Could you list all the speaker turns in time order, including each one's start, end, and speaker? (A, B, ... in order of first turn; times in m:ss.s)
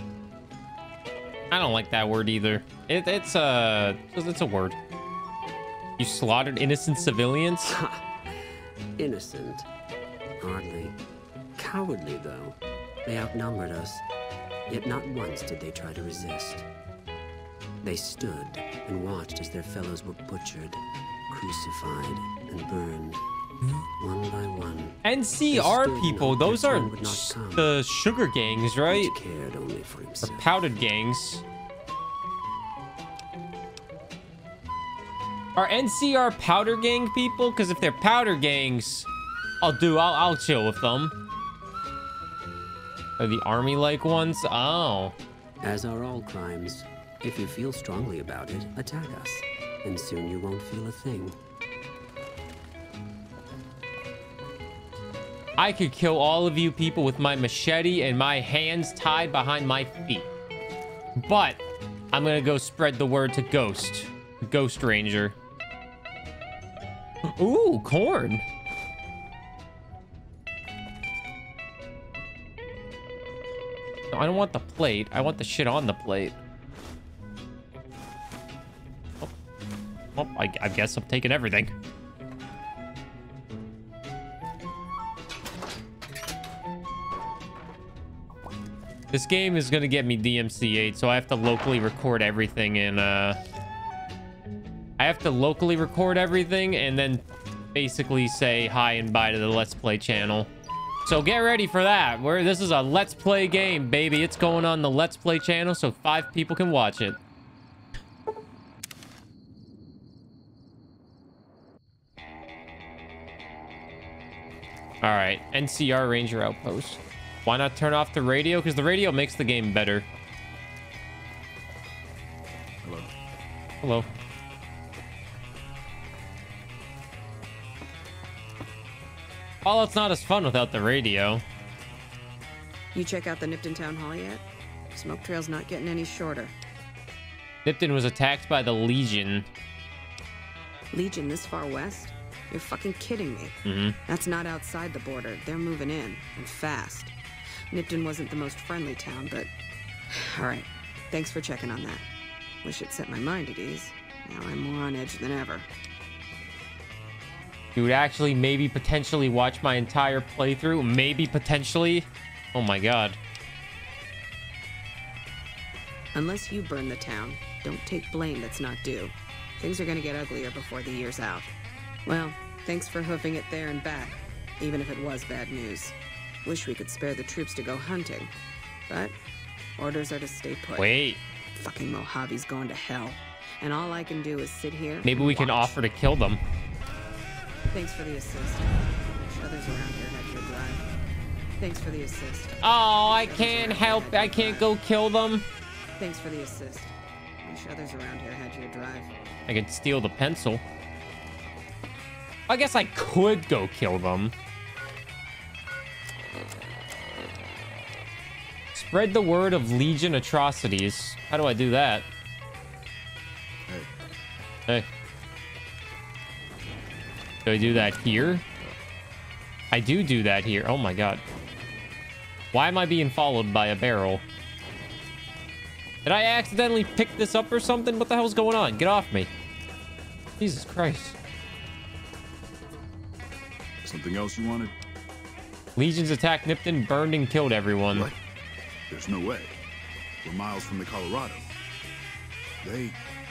0:01.5-0:04.8 A
0:06.0-0:07.8 A
0:07.6-0:08.1 B
0:09.0-0:09.7 B
0:10.4-0:11.0 B
0:11.6-0:14.0 B
0:14.7-0:16.7 B
0:17.8-0:23.2 B
0:24.0-0:25.0 B
0:25.0-0:29.1 A
0:25.5-0:27.8 B
0:28.9-0:30.5 B
0:30.2-0:31.4 A
0:35.6-0:39.1 A
0:39.6-0:41.2 A
0:43.2-0:45.1 A
0:45.6-0:51.4 B
0:55.6-1:00.3 A
1:01.2-1:01.6 A
1:02.1-1:05.4 A
1:07.3-1:08.4 A
1:14.1-1:16.4 A
1:20.1-1:21.8 A
1:29.1-1:33.4 A
1:35.0-1:40.5 A
1:41.0-1:47.2 A
1:55.0-2:00.1 A
2:02.8-2:03.1 C
2:09.6-2:11.4 A
2:12.9-2:16.5 D
2:17.6-2:19.5 A
2:20.9-2:27.1 D
2:23.6-2:24.0 A
2:27.7-2:29.5 D
2:30.1-2:32.0 D
2:32.6-2:35.7 D
2:37.7-2:43.2 A
2:46.1-2:51.5 D
2:52.1-2:58.3 D
2:58.9-2:59.1 D
2:59.8-3:00.9 D
3:00.8-3:01.2 A
3:01.6-3:05.8 D
3:05.0-3:06.4 A
3:07.7-3:10.9 D
3:11.6-3:14.7 D
3:12.6-3:15.4 A
3:16.0-3:19.1 D
3:19.5-3:20.6 A
3:22.5-3:24.3 A
3:28.7-3:32.1 A
3:37.4-3:38.4 A
3:39.7-3:41.2 A
3:42.5-3:44.2 A
3:46.0-3:49.3 A
3:50.4-3:51.2 A
3:53.8-3:54.7 C
3:55.8-3:58.1 A
3:58.9-3:59.6 C
4:00.2-4:01.5 C
4:02.6-4:03.0 C